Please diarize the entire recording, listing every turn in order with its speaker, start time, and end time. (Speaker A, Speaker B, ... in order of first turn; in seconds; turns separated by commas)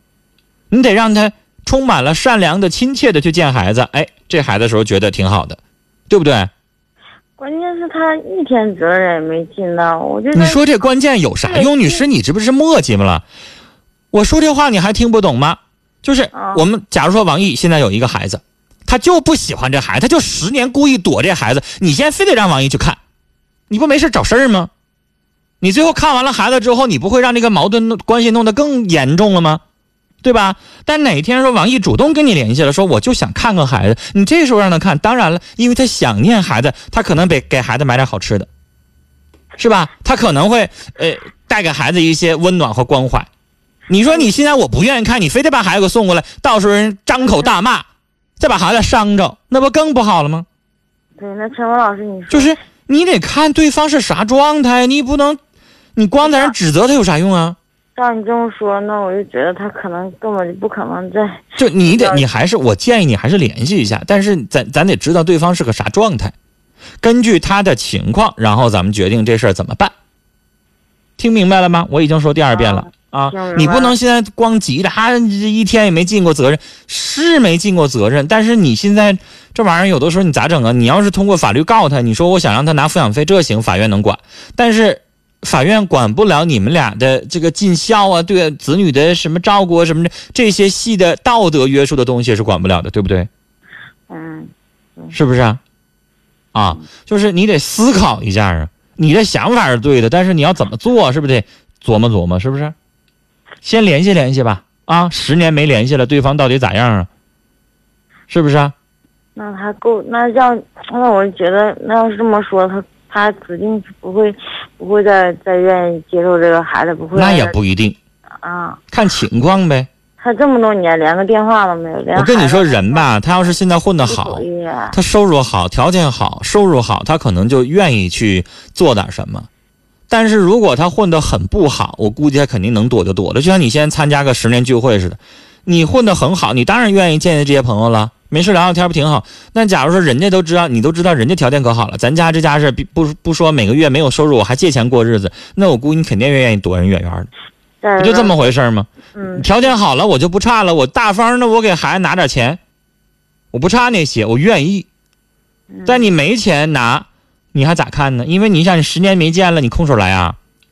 Speaker A: 0.7-6.5, Speaker B: 7.4-10.6, Speaker A: 10.3-13.2, Speaker B: 11.4-12.0, Speaker A: 14.1-23.0, Speaker B: 16.3-16.6, Speaker A: 23.7-24.7, Speaker A: 25.6-29.6, Speaker A: 30.2-38.5, Speaker A: 39.6-43.3, Speaker A: 43.9-47.9, Speaker A: 48.4-50.5, Speaker B: 51.2-52.5, Speaker A: 52.3-55.4, Speaker A: 56.0-57.6, Speaker B: 56.2-56.5, Speaker B: 58.0-62.2, Speaker A: 61.6-66.3, Speaker A: 67.0-69.9, Speaker A: 71.2-93.3, Speaker B: 72.5-74.0, Speaker B: 94.1-95.1, Speaker A: 95.1-95.6, Speaker A: 96.5-102.7, Speaker A: 103.6-107.1, Speaker A: 108.3-108.7, Speaker B: 109.3-117.5, Speaker A: 117.1-118.0, Speaker B: 118.4-118.8, Speaker A: 118.9-119.9, Speaker B: 120.2-125.0, Speaker A: 122.1-129.5, Speaker A: 130.1-147.3, Speaker B: 147.8-148.5, Speaker A: 148.0-152.6, Speaker B: 149.1-149.8, Speaker A: 153.5-154.9, Speaker B: 155.7-156.1, Speaker A: 155.8-160.4